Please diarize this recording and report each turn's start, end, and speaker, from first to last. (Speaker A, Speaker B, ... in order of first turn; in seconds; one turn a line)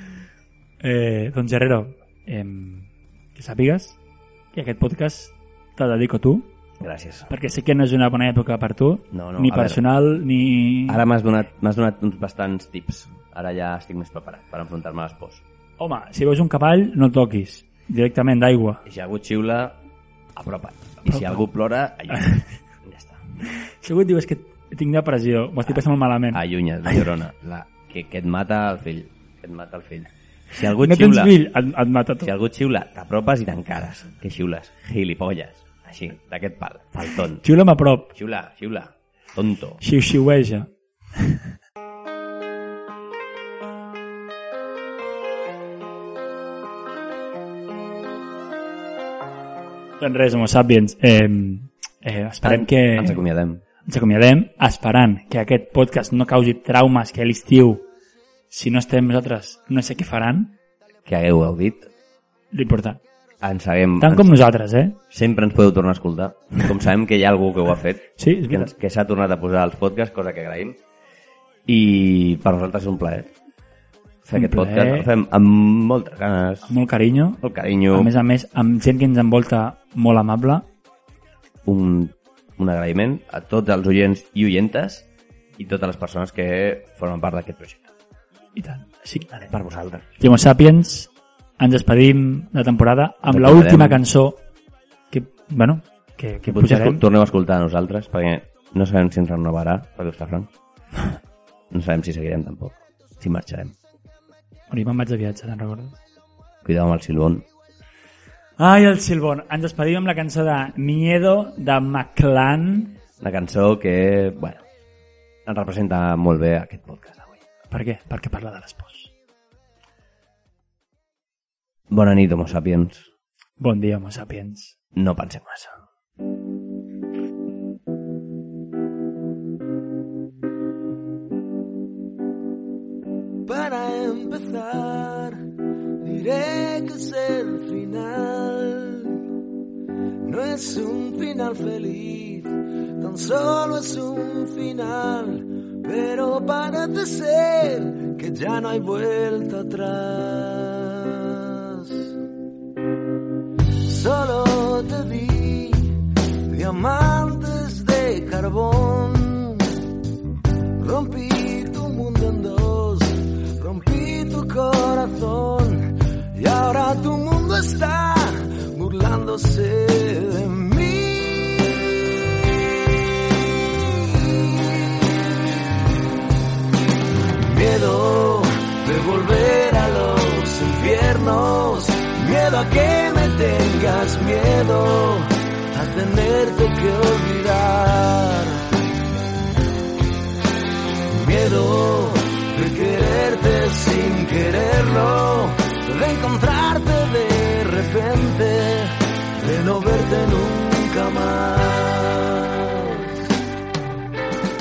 Speaker A: 0.8-4.0
Speaker A: 4.5-6.5
Speaker B: 6.8-7.3
Speaker A: 7.3-11.0
Speaker B: 9.1-9.8
Speaker B: 10.9-15.4
Speaker A: 15.8-18.8
Speaker B: 18.9-19.8
Speaker B: 20.4-23.2
Speaker A: 21.1-21.4
Speaker A: 22.1-22.4
Speaker A: 23.5-27.0
Speaker B: 26.3-31.4
Speaker A: 30.6-32.3
Speaker B: 32.2-37.5
Speaker A: 37.4-38.1
Speaker B: 38.1-39.8
Speaker A: 39.8-41.5
Speaker A: 50.0-53.2
Speaker B: 52.4-53.6
Speaker A: 53.9-57.9
Speaker A: 58.5-60.6
Speaker B: 61.0-61.9
Speaker A: 62.5-63.0
Speaker B: 63.4-64.4
Speaker A: 64.0-65.0
Speaker B: 65.1-70.8
Speaker A: 68.2-68.7
Speaker B: 71.7-73.3
Speaker B: 74.2-76.7
Speaker A: 74.3-75.1
Speaker A: 76.7-80.7
Speaker B: 77.4-78.1
Speaker B: 81.7-85.1
Speaker B: 85.6-87.9
Speaker A: 88.5-89.5
Speaker B: 89.5-90.1
Speaker A: 90.2-94.4
Speaker B: 93.2-94.0
Speaker A: 95.1-97.0
Speaker B: 96.5-100.5
Speaker B: 101.7-103.8
Speaker A: 104.7-106.0
Speaker B: 106.6-107.5
Speaker A: 108.6-113.0
Speaker B: 113.2-114.7
Speaker B: 115.5-117.4
Speaker A: 117.7-119.1
Speaker B: 121.9-123.1
Speaker A: 123.6-124.8
Speaker B: 125.0-125.8
Speaker C: 133.4-139.2
Speaker C: 140.2-152.1
Speaker C: 153.7-159.8
Speaker C: 160.8-171.9
Speaker C: 173.7-175.4
Speaker C: 177.3-188.7
Speaker C: 191.1-203.3